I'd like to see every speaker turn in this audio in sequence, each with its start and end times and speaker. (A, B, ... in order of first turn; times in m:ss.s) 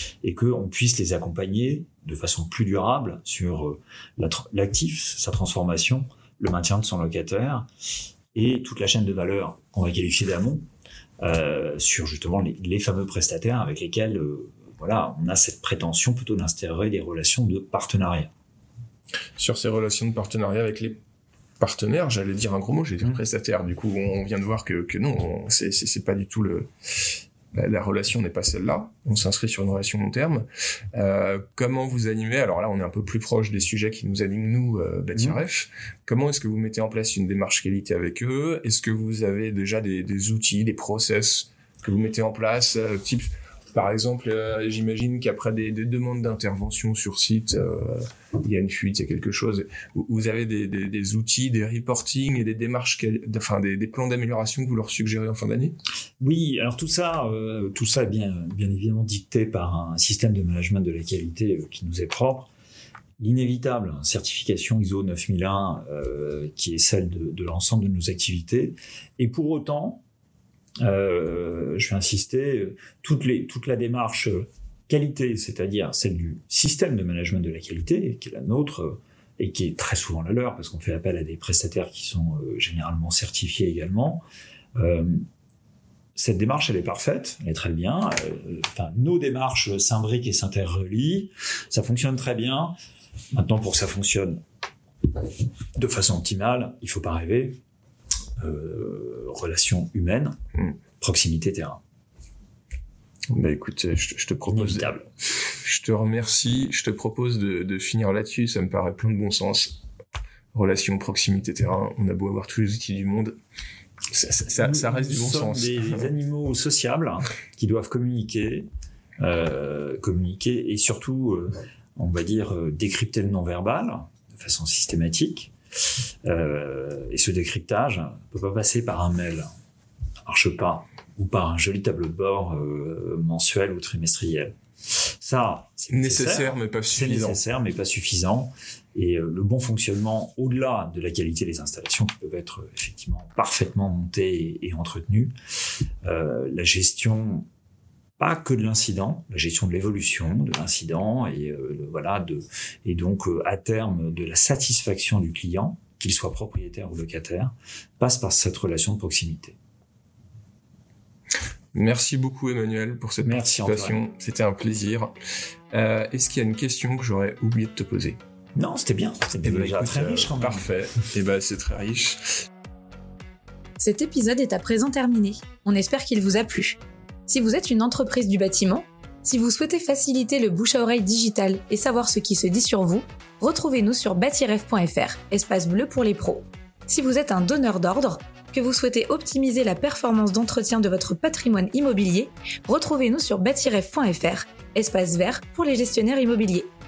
0:00.2-0:07.7 A
0:08.3-0:10.6 A
0:11.2-0:18.3 A
0:19.4-0:21.0 B
0:21.6-0:55.8 B
0:56.2-1:02.5 A
1:03.2-1:10.0 A
1:10.8-1:24.2 A
1:24.8-1:25.2 A
1:26.1-1:32.8 A
1:33.3-1:34.4 A
1:35.7-1:37.6 A
1:38.4-1:40.4 A
1:41.0-1:41.8 A
1:43.3-1:44.9 B
1:44.5-1:45.1 A
1:45.5-1:49.8 B
1:50.5-1:53.4 B
1:54.1-1:56.0 B
1:54.4-1:58.7 A
1:59.2-2:05.5 A
2:06.2-2:09.5 A
2:10.2-2:14.6 A
2:15.2-2:25.3 A
2:15.9-2:17.4 B
2:26.0-2:27.5 A
2:28.2-2:39.6 A
2:41.7-2:45.1 B
2:43.2-2:44.0 A
2:45.7-2:48.2 B
2:48.6-2:50.7 A
2:49.4-2:52.3 B
2:53.8-3:16.7 C